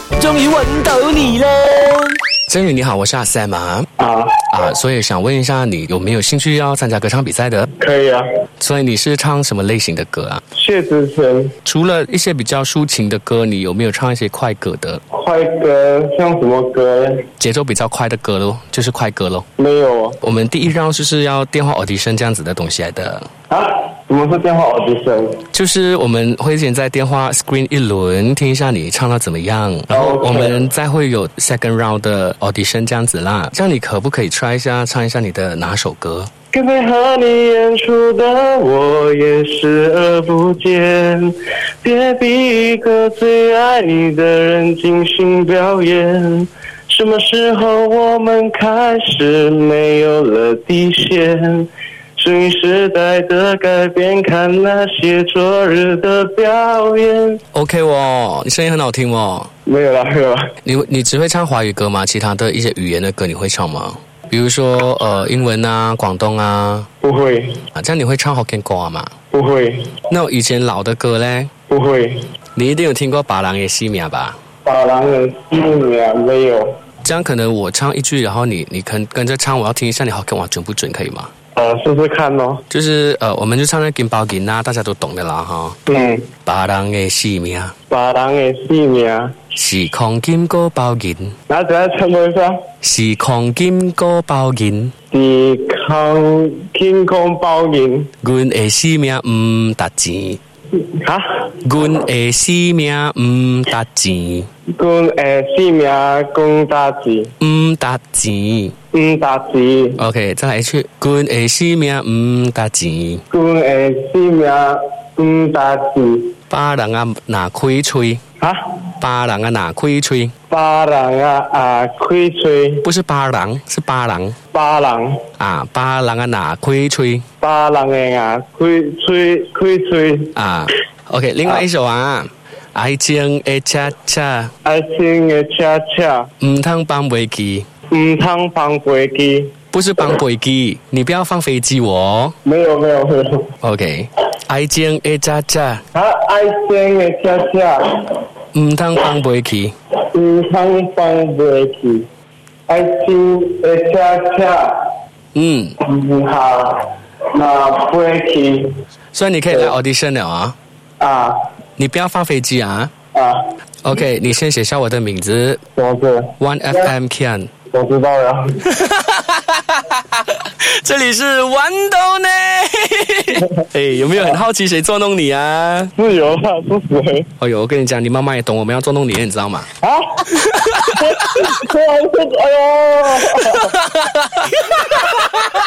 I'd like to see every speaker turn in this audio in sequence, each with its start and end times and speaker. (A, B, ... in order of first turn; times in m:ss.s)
0:00.2-0:02.2 A
0:02.5-0:03.9 B
0:04.0-0:04.4 C
0:04.5-0:07.7 B
0:07.8-0:08.2 C
0:08.6-0:10.4 B
0:10.6-0:11.5 C
0:11.6-0:15.0 B
0:15.1-0:17.3 C
0:17.4-0:19.4 B
0:19.6-0:20.2 C
0:20.2-0:23.3 B
0:23.5-0:25.4 C
0:25.5-0:36.3 B
0:29.9-0:30.7 C
0:36.5-0:57.4 C
0:57.5-0:59.5 B
0:59.6-1:00.5 C
1:00.6-1:06.9 B
1:07.0-1:07.6 C
1:07.7-1:09.1 B
1:09.3-1:10.0 C
1:10.1-1:11.5 B
1:11.7-1:12.2 C
1:12.6-1:14.4 B
1:14.6-1:16.8 C
1:17.0-1:21.3 B
1:21.6-1:22.6 C
1:22.7-1:25.8 B
1:25.9-1:26.3 C
1:26.5-1:27.7 B
1:27.9-1:29.4 C
1:29.5-1:31.3 B
1:31.5-1:32.6 C
1:32.8-1:34.9 B
1:35.1-1:38.1 C
1:38.2-1:40.4 B
1:40.8-1:41.4 C
1:41.6-1:44.5 B
1:44.8-1:47.3 C
1:47.4-1:48.8 B
1:48.9-1:50.0 C
1:50.0-1:53.2 B
1:53.3-1:56.3 C
1:56.5-1:58.2 B
1:59.0-2:00.3 B
2:00.5-2:02.8 C
2:02.8-2:04.4 B
2:04.5-2:05.2 C
2:05.4-2:07.2 B
2:07.4-2:10.3 C
2:10.3-2:14.5 B
2:14.6-2:16.3 C
2:16.4-2:17.7 B
2:17.9-2:19.5 C
2:19.7-2:22.3 B
2:22.4-2:23.4 C
2:23.6-2:25.8 B
2:25.9-2:28.1 C
2:28.5-2:29.7 B
2:30.1-2:32.1 C
2:32.7-2:34.8 C
2:35.3-2:35.8 B
2:35.8-2:38.7 C
2:39.1-2:40.5 B
2:39.5-2:39.8 C
2:41.0-2:41.4 C
2:41.8-2:42.9 B
2:43.1-2:43.4 C
2:43.8-2:45.6 B
2:45.8-2:46.9 C
2:46.4-2:47.5 B
2:47.7-2:48.7 C
2:48.6-2:55.9 B
2:56.0-2:57.3 C
2:57.4-2:59.7 B
2:59.8-3:03.7 C
3:00.3-3:01.6 B
3:03.2-3:05.0 B